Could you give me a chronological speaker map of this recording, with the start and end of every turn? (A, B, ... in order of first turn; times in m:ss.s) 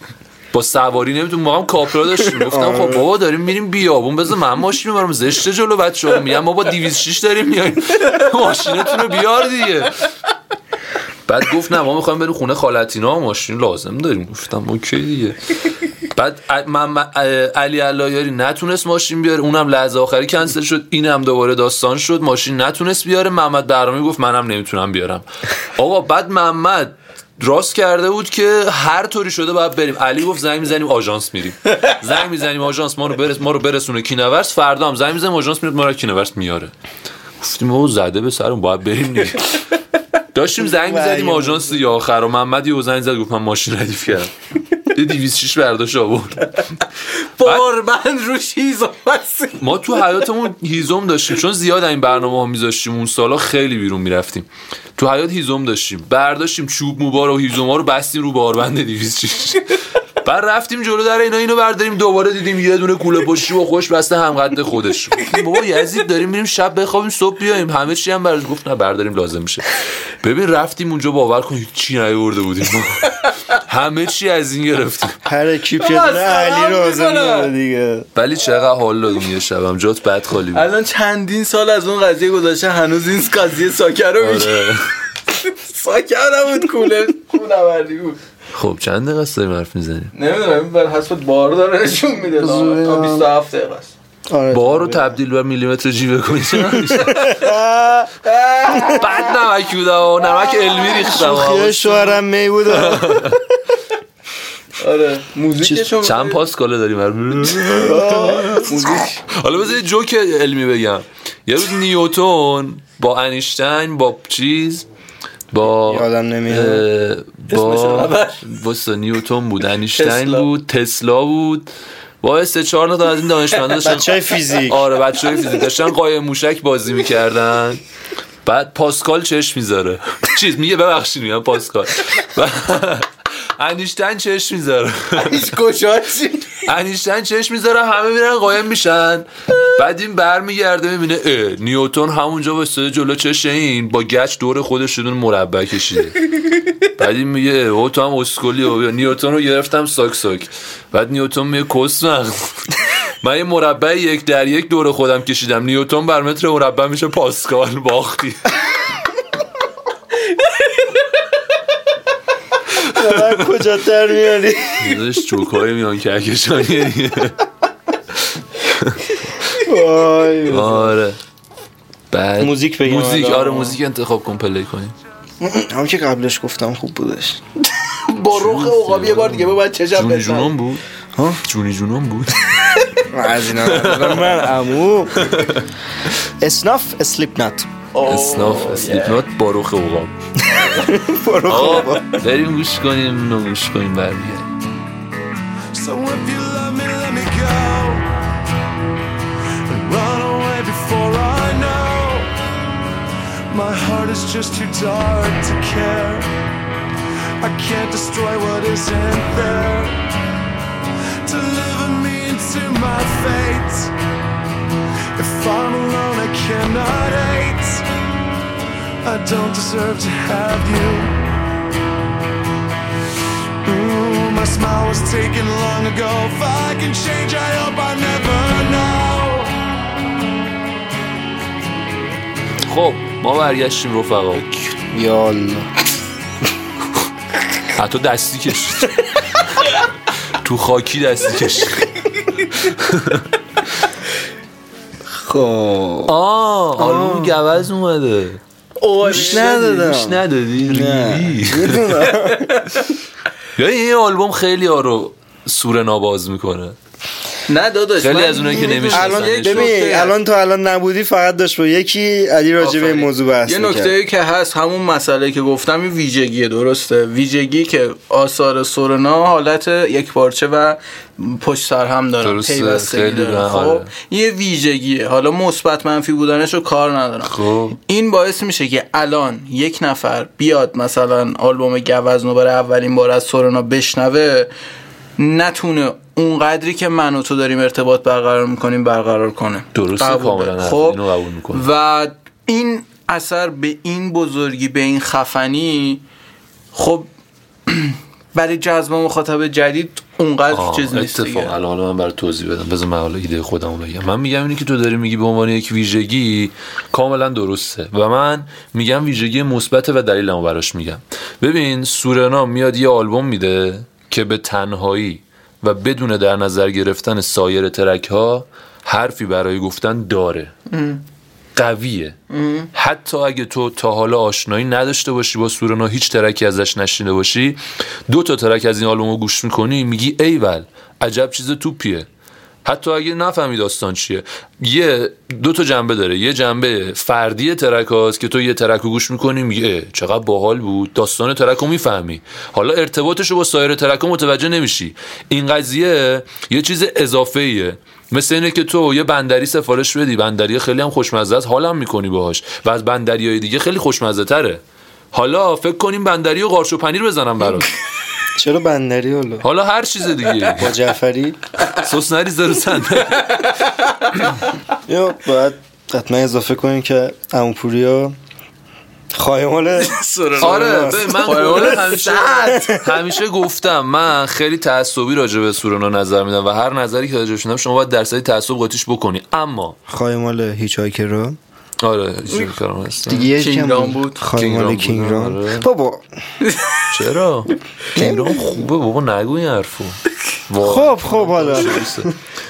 0:00.5-0:10.0 A
0:02.3-0:03.1 B
0:11.3-0:15.4 A
0:16.1-0:36.7 A
0:37.4-0:39.6 A
0:40.3-0:46.5 A
0:40.6-0:41.8 B
0:47.4-0:50.0 C
0:49.6-1:15.2 A
1:15.2-1:18.1 B
1:15.8-1:17.5 C
1:18.1-1:20.6 A
1:20.5-1:24.7 C
1:24.2-1:24.9 A
1:25.3-1:28.2 C
1:28.5-1:30.1 A
1:30.1-1:33.9 C
1:32.4-1:33.3 B
1:34.3-1:35.2 B
1:34.5-1:37.4 A
1:36.7-1:38.1 B
1:38.2-1:39.2 C
1:38.7-1:39.0 B
1:38.9-1:43.4 A
1:40.9-1:43.4 B
1:44.8-1:46.4 C
1:46.0-1:54.8 A
1:47.6-1:48.9 B
1:48.3-1:49.4 C
1:55.5-2:01.7 A
1:55.8-1:56.8 B
1:57.5-1:58.5 C
2:00.0-2:00.5 C
2:02.2-2:07.8 A
2:03.8-2:04.8 B
2:08.4-2:15.5 A
2:15.1-2:16.6 C
2:16.6-2:26.2 A
2:27.0-2:38.5 A
2:42.8-2:45.0 B
2:44.8-2:47.4 A
2:48.6-2:49.1 A
2:49.6-2:51.0 B
2:50.5-2:51.2 A
2:52.1-2:54.9 A
2:52.4-2:53.8 B
2:55.4-2:57.4 B
2:58.0-3:00.5 C
2:58.3-3:00.8 A
3:01.2-3:01.4 B
3:01.4-3:02.7 A
3:03.1-3:05.4 B
3:03.5-3:04.5 A
3:05.2-3:05.6 A
3:06.4-3:07.7 B
3:07.9-3:09.2 C
3:08.0-3:10.1 A
3:10.4-3:12.2 B
3:11.4-3:14.5 A
3:15.7-3:18.1 D
3:19.6-3:22.3 D
3:23.5-3:26.3 D
3:27.4-3:30.0 D
3:31.2-3:33.9 D
3:35.2-3:37.8 D
3:39.0-3:41.2 D
3:43.6-3:49.5 D
3:52.6-3:54.4 A
3:54.9-3:55.7 B
3:57.7-3:59.8 A
4:00.4-4:01.9 A
4:02.5-4:03.3 A
4:05.1-4:06.1 B
4:06.0-4:08.4 A
4:06.8-4:07.4 B
4:08.8-4:09.9 C
4:09.0-4:12.1 A
4:09.0-4:12.7 B
4:12.2-4:12.8 C
4:13.6-4:16.8 A
4:17.5-4:20.1 C
4:18.0-4:19.7 A
4:18.6-4:23.9 B
4:22.6-4:44.5 C
4:32.2-4:33.9 A
4:37.2-4:37.8 A
4:45.2-4:56.0 C
4:49.7-4:51.7 A
4:56.7-4:57.1 C
4:57.7-5:01.5 C
5:00.5-5:20.5 A
5:20.7-5:21.0 C
5:21.6-5:22.2 A
5:22.3-5:22.7 C
5:22.7-5:32.1 A
5:32.6-5:54.6 A
5:55.1-5:57.7 A
5:58.4-5:59.4 B
5:59.4-6:00.7 A
6:00.6-6:01.4 B
6:01.7-6:03.5 A
6:03.1-6:04.3 C
6:04.9-6:08.2 B
6:09.1-6:12.8 B
6:09.8-6:12.8 C
6:10.4-6:19.8 A
6:19.9-6:21.4 B
6:21.8-6:23.3 A
6:23.1-6:26.0 B
6:23.1-6:24.2 C
6:24.3-6:25.7 A
6:26.4-6:26.9 C
6:26.9-6:32.1 A
6:28.0-6:28.4 B
6:30.6-6:32.1 B